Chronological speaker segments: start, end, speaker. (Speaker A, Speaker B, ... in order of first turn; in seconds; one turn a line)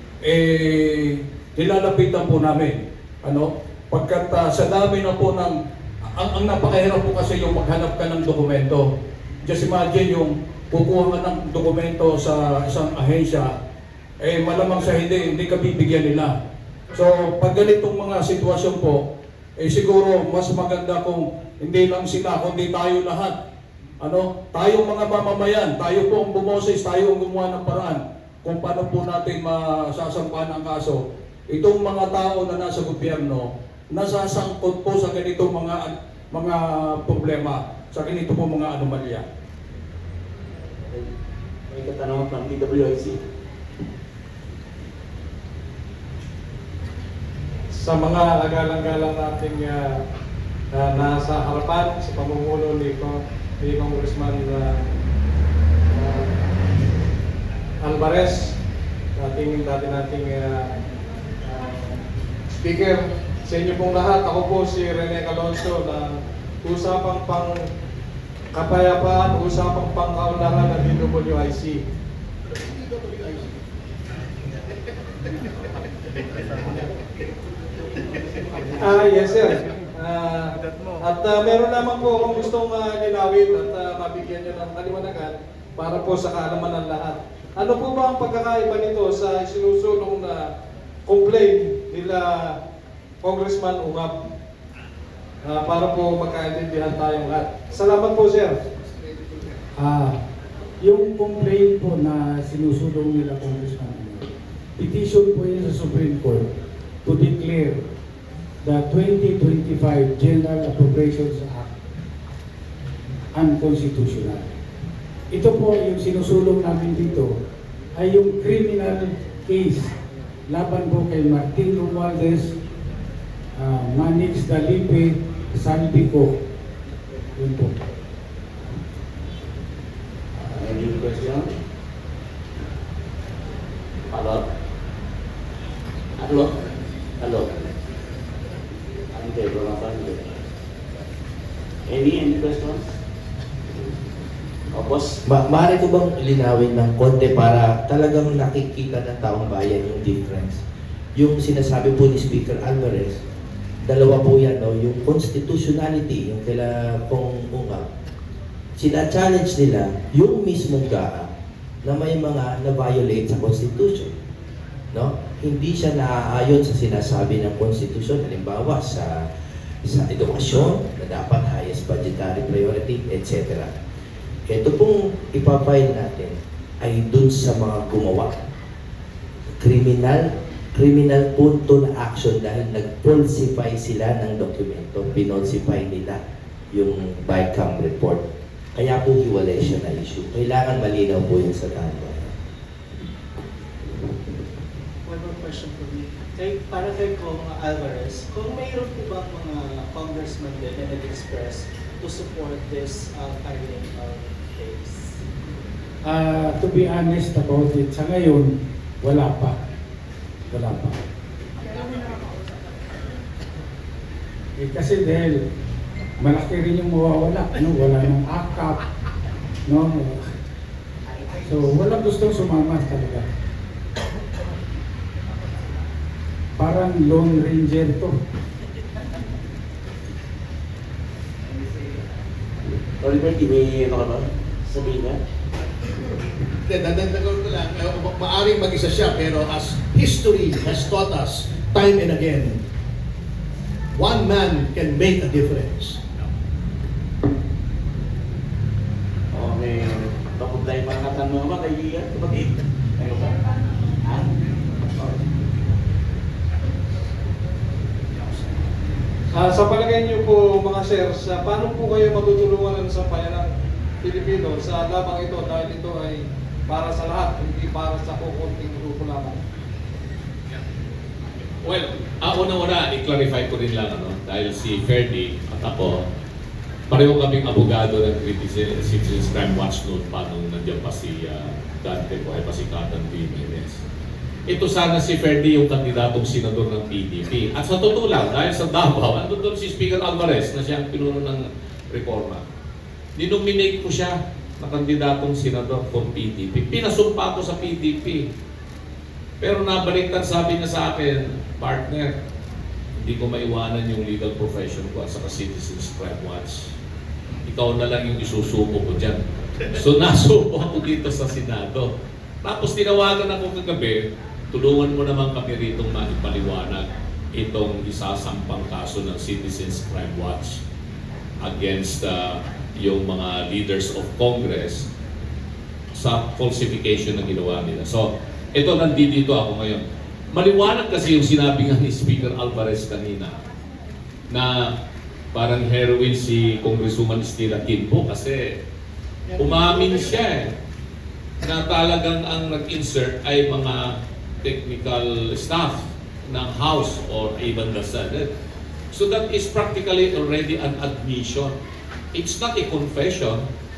Speaker A: 0.2-5.6
Speaker A: 6.2-8.9
Speaker A: 9.4-13.5
Speaker A: 14.2-16.3
Speaker A: 16.9-19.0
Speaker A: 19.6-23.3
Speaker A: 24.0-39.2
Speaker B: 41.7-43.1
Speaker C: 47.8-50.0
Speaker C: 50.7-54.7
Speaker C: 55.9-56.3
Speaker C: 57.8-58.5
Speaker C: 59.2-60.7
Speaker C: 61.4-62.0
Speaker C: 62.6-67.5
Speaker C: 68.5-71.8
Speaker D: 73.0-73.5
Speaker C: 78.8-90.5
Speaker C: 91.0-92.5
Speaker C: 93.2-94.2
Speaker C: 95.4-98.6
Speaker E: 99.8-100.2
Speaker E: 100.8-104.2
Speaker E: 104.8-106.4
Speaker E: 107.0-107.8
Speaker E: 108.7-111.7
Speaker E: 113.4-114.4
Speaker E: 115.3-117.3
Speaker E: 118.0-119.9
Speaker E: 120.5-122.5
Speaker E: 123.6-126.3
Speaker E: 127.4-127.7
Speaker B: 130.4-131.5
Speaker B: 134.1-134.4
Speaker B: 136.2-136.5
Speaker B: 137.2-137.7
Speaker B: 139.1-140.4
Speaker B: 141.9-142.8
Speaker B: 144.7-145.2
Speaker F: 145.2-150.6
Speaker F: 151.2-153.2
Speaker F: 153.8-157.8
Speaker F: 158.8-161.3
Speaker F: 161.8-164.1
Speaker F: 164.9-169.3
Speaker F: 169.8-173.7
Speaker F: 174.4-178.3
Speaker F: 179.6-186.2
Speaker F: 186.7-188.2
Speaker F: 188.7-192.3
Speaker G: 195.1-205.2
Speaker E: 206.1-208.5
Speaker E: 209.0-209.5
Speaker E: 210.5-211.0
Speaker E: 214.6-215.4
Speaker E: 216.2-218.7
Speaker E: 219.7-220.1
Speaker E: 221.4-223.2
Speaker E: 226.6-228.1
Speaker B: 233.0-235.2
Speaker D: 236.7-242.6
Speaker D: 243.9-246.0
Speaker B: 249.3-253.3
Speaker B: 254.0-254.3
Speaker C: 259.3-263.5
Speaker C: 264.0-269.4
Speaker H: 271.6-276.0
Speaker H: 276.9-283.8
Speaker H: 284.5-292.4
Speaker H: 293.1-298.3
Speaker H: 299.4-302.1
Speaker H: 302.9-306.7
Speaker H: 307.4-309.2
Speaker H: 309.7-311.9
Speaker H: 312.4-320.6
Speaker H: 321.4-324.9
Speaker H: 325.9-333.4
Speaker H: 334.3-334.7
Speaker H: 335.3-338.5
Speaker H: 339.4-340.5
Speaker H: 341.4-348.3
Speaker H: 348.9-351.5
Speaker H: 352.1-353.4